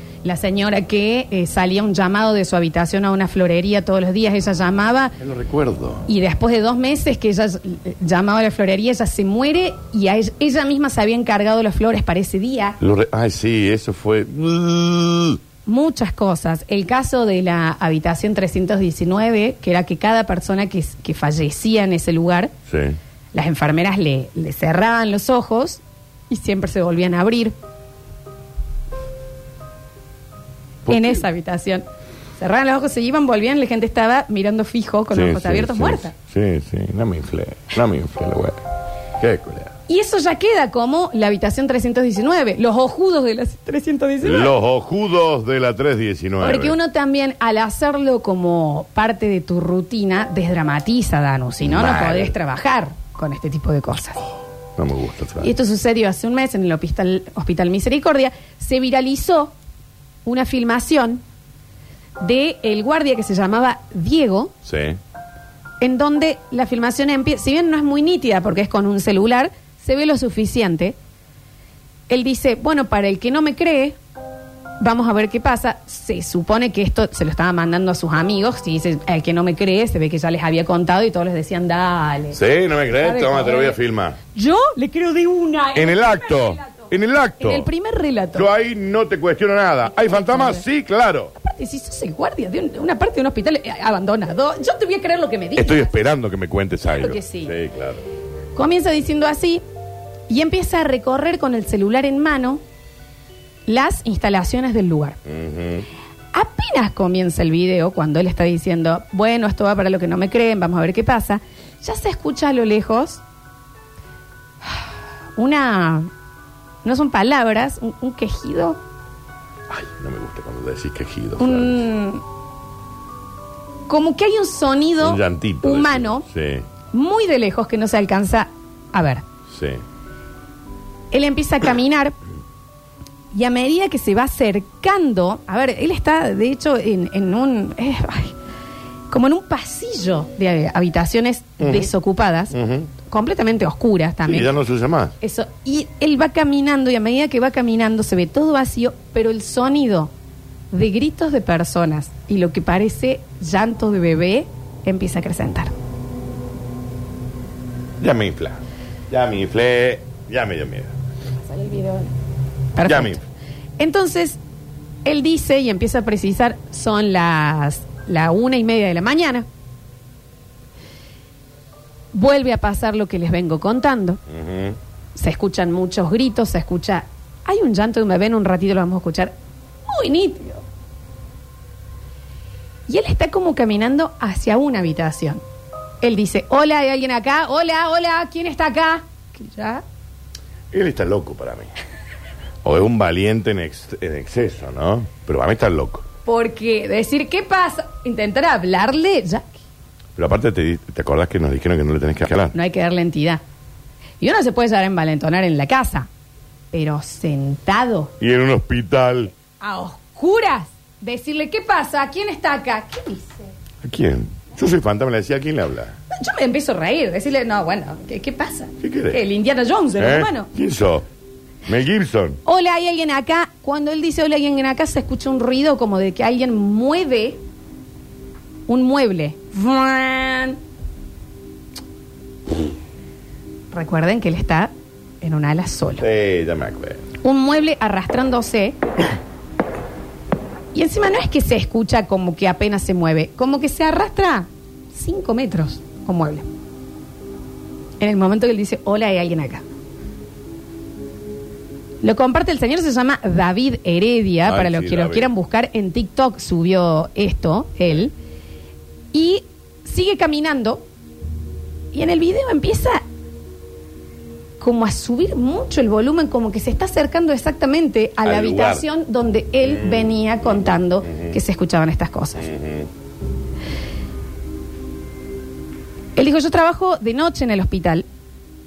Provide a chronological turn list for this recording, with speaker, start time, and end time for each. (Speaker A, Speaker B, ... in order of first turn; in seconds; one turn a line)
Speaker A: 0.2-5.1
Speaker B: 5.2-6.0
Speaker A: 6.1-12.8
Speaker B: 12.8-15.4
Speaker A: 15.7-22.5
Speaker B: 22.7-23.0
Speaker A: 23.3-27.5
Speaker B: 30.9-31.2
Speaker A: 30.9-31.8
Speaker A: 32.4-36.1
Speaker B: 35.1-38.6
Speaker B: 39.2-39.7
Speaker A: 39.9-44.5
Speaker B: 44.2-46.8
Speaker A: 46.4-54.2
Speaker B: 51.6-52.3
Speaker B: 54.8-55.5
Speaker A: 55.4-59.5
Speaker A: 60.2-61.2
Speaker A: 62.2-64.5
Speaker B: 64.7-65.0
Speaker A: 65.8-71.0
Speaker A: 72.1-74.0
Speaker A: 74.8-82.4
Speaker B: 82.3-84.2
Speaker A: 83.0-83.8
Speaker A: 84.3-86.9
Speaker B: 85.7-87.7
Speaker A: 87.4-88.5
Speaker B: 88.3-91.3
Speaker A: 89.8-90.6
Speaker A: 91.4-95.9
Speaker B: 95.5-98.0
Speaker A: 96.9-97.5
Speaker A: 98.5-99.6
Speaker A: 100.3-102.6
Speaker A: 103.7-105.2
Speaker B: 105.2-105.9
Speaker A: 106.3-113.2
Speaker A: 115.4-116.1
Speaker A: 116.8-118.8
Speaker B: 119.7-121.8
Speaker A: 121.4-122.2
Speaker A: 123.9-126.2
Speaker B: 125.0-126.7
Speaker A: 126.9-129.2
Speaker B: 129.5-129.8
Speaker A: 131.1-132.2
Speaker A: 133.3-138.3
Speaker A: 139.1-142.5
Speaker B: 141.6-141.9
Speaker B: 142.5-142.9
Speaker A: 143.1-144.6
Speaker B: 144.2-145.1
Speaker A: 145.2-150.1
Speaker A: 150.7-155.7
Speaker B: 158.0-160.9
Speaker A: 161.4-162.1
Speaker A: 162.7-163.2
Speaker B: 162.8-163.2
Speaker A: 163.8-164.4
Speaker A: 165.0-169.4
Speaker A: 172.1-174.2
Speaker B: 174.3-174.8
Speaker A: 175.1-179.3
Speaker A: 179.9-180.6
Speaker A: 182.9-185.4
Speaker A: 186.0-189.8
Speaker B: 190.7-191.7
Speaker B: 192.6-196.0
Speaker A: 196.2-199.6
Speaker B: 200.2-202.5
Speaker A: 202.5-203.4
Speaker A: 204.2-206.1
Speaker A: 206.7-208.1
Speaker B: 208.2-209.3
Speaker A: 209.6-213.4
Speaker B: 213.8-215.9
Speaker A: 216.1-220.5
Speaker B: 218.8-219.2
Speaker B: 220.0-221.0
Speaker B: 221.7-222.4
Speaker A: 222.4-227.4
Speaker A: 228.7-230.6
Speaker A: 233.7-236.0
Speaker B: 236.0-237.0
Speaker A: 237.2-238.8
Speaker A: 240.7-246.4
Speaker A: 248.0-249.6
Speaker A: 252.0-258.1
Speaker B: 254.4-255.3
Speaker A: 259.1-260.8
Speaker A: 261.9-263.0
Speaker A: 264.6-272.5
Speaker B: 268.2-268.9
Speaker B: 269.6-271.4
Speaker B: 272.4-272.9
Speaker A: 276.1-278.0